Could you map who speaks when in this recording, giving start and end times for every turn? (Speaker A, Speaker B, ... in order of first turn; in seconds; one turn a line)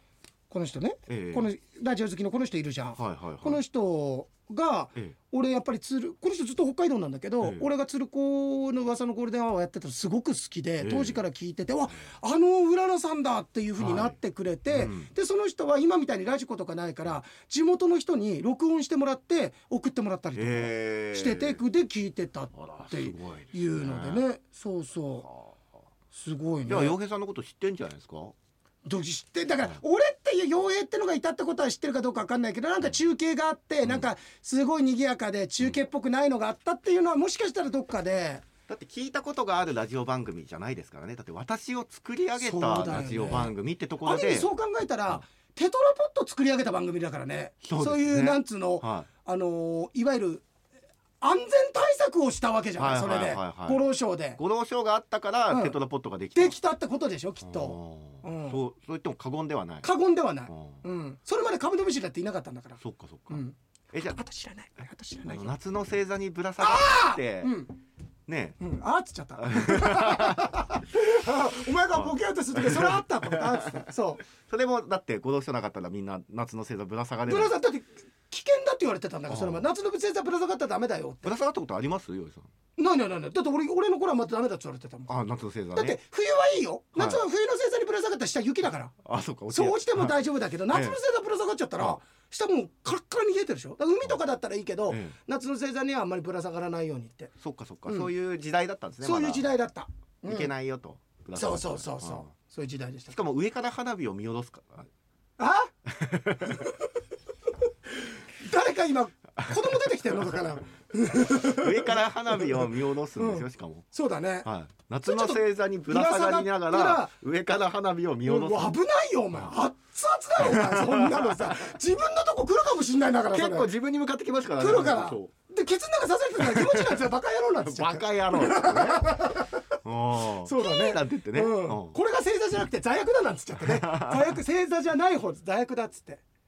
Speaker A: 0.5-25.3
Speaker B: 1.1-1.5
Speaker B: 3.0-3.6
Speaker B: 10.8-11.2
Speaker B: 13.8-14.2
Speaker B: 14.7-15.1
Speaker B: 20.4-21.6
Speaker B: 22.5-24.2
Speaker A: 26.1-27.0
Speaker B: 26.6-28.3
Speaker A: 28.9-38.4
Speaker B: 38.7-44.5
Speaker A: 42.4-50.4
Speaker B: 47.6-49.1
Speaker A: 51.2-54.4
Speaker B: 52.8-53.8
Speaker B: 54.4-56.5
Speaker A: 55.5-55.8
Speaker A: 56.3-58.6
Speaker B: 57.4-59.9
Speaker A: 59.8-63.5
Speaker B: 60.5-60.8
Speaker B: 62.8-64.2
Speaker A: 64.1-65.5
Speaker B: 65.2-67.5
Speaker A: 66.6-67.7
Speaker B: 68.3-68.6
Speaker A: 68.6-74.2
Speaker B: 69.4-70.6
Speaker B: 71.9-77.5
Speaker A: 77.3-81.3
Speaker B: 79.3-79.7
Speaker B: 81.2-82.5
Speaker A: 82.8-85.1
Speaker B: 85.1-86.0
Speaker A: 85.7-88.9
Speaker B: 87.0-87.2
Speaker B: 89.0-91.0
Speaker A: 89.5-97.3
Speaker B: 94.9-95.1
Speaker B: 97.4-99.5
Speaker A: 99.0-100.5
Speaker B: 100.2-102.3
Speaker A: 101.3-103.2
Speaker B: 103.1-104.9
Speaker A: 105.4-105.7
Speaker B: 105.9-106.7
Speaker A: 106.4-106.7
Speaker A: 108.4-114.5
Speaker B: 111.2-113.8
Speaker B: 114.4-118.8
Speaker A: 115.0-117.1
Speaker A: 118.2-123.7
Speaker B: 120.4-121.7
Speaker B: 123.3-125.3
Speaker A: 124.6-129.7
Speaker B: 126.4-127.0
Speaker B: 127.6-129.2
Speaker B: 129.8-131.9
Speaker A: 130.4-136.2
Speaker B: 133.6-134.4